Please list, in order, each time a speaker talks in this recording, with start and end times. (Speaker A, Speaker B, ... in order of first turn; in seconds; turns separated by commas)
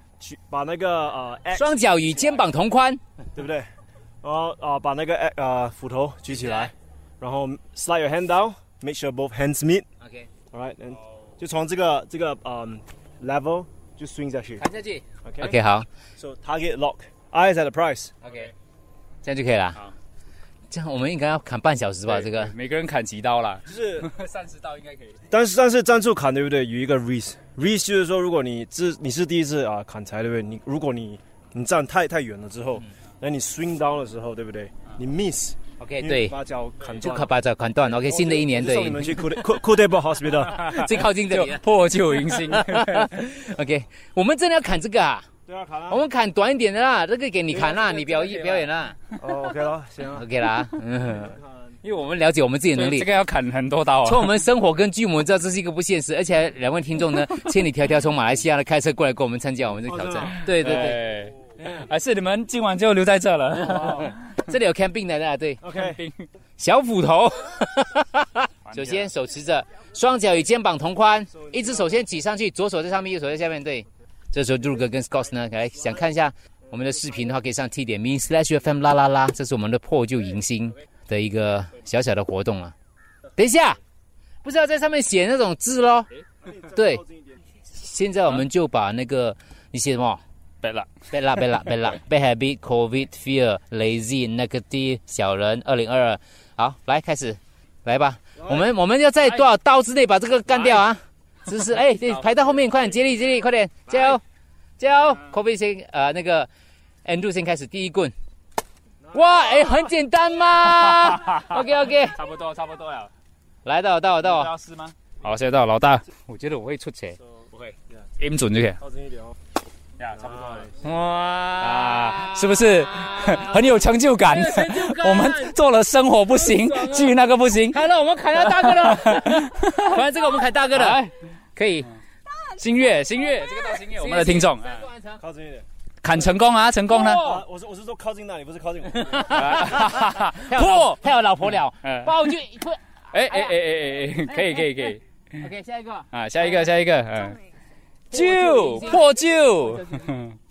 Speaker A: 0.2-2.4, Speaker B: 1.5-3.0, Speaker A: 3.3-3.7, Speaker A: 4.2-9.8, Speaker B: 6.3-6.7, Speaker B: 10.0-10.3, Speaker A: 10.5-14.6, Speaker B: 14.6-15.9, Speaker A: 15.2-15.6, Speaker A: 16.2-18.1, Speaker B: 18.2-18.5, Speaker B: 19.2-19.8, Speaker B: 20.7-22.5, Speaker C: 22.1-25.2, Speaker A: 23.6-24.1, Speaker A: 25.3-37.3, Speaker B: 35.8-36.4, Speaker B: 37.0-39.3, Speaker A: 37.9-40.8, Speaker C: 40.4-43.2, Speaker B: 40.7-41.6, Speaker B: 42.2-45.3, Speaker A: 45.5-46.0, Speaker B: 45.9-49.0, Speaker C: 47.5-48.7, Speaker A: 49.2-50.2, Speaker B: 50.1-53.1, Speaker A: 51.1-51.8, Speaker C: 52.7-54.3, Speaker B: 54.0-61.0, Speaker A: 59.9-60.4, Speaker C: 60.4-64.2, Speaker B: 63.7-65.6, Speaker A: 65.6-66.0, Speaker C: 65.7-66.2, Speaker B: 66.6-82.7, Speaker C: 68.7-69.1, Speaker A: 71.3-72.1, Speaker B: 83.3-83.8, Speaker B: 84.4-86.1, Speaker A: 86.4-87.4, Speaker B: 86.7-87.0, Speaker B: 87.7-90.2, Speaker C: 90.6-90.9, Speaker B: 91.1-104.2, Speaker A: 98.4-98.7, Speaker C: 102.1-102.6, Speaker B: 104.8-106.5, Speaker B: 107.0-108.1, Speaker A: 109.1-109.4, Speaker B: 109.1-112.2, Speaker C: 110.8-113.1, Speaker B: 113.6-114.5, Speaker C: 114.2-116.0, Speaker B: 116.2-117.2, Speaker C: 117.5-118.8, Speaker A: 118.8-119.3, Speaker C: 120.0-120.7, Speaker A: 120.2-120.7, Speaker B: 120.8-125.5, Speaker C: 121.6-127.8, Speaker B: 126.3-131.0, Speaker C: 128.5-130.0, Speaker C: 130.7-131.1, Speaker B: 131.5-131.9, Speaker C: 132.5-134.9, Speaker B: 133.3-135.2, Speaker A: 135.2-135.7, Speaker C: 136.0-137.2, Speaker B: 136.9-137.4, Speaker A: 137.0-139.4, Speaker B: 138.9-143.6, Speaker C: 139.3-141.0, Speaker C: 141.8-142.3, Speaker C: 143.1-145.5, Speaker B: 144.3-146.6, Speaker C: 146.1-147.4, Speaker C: 148.1-150.4, Speaker B: 148.1-149.1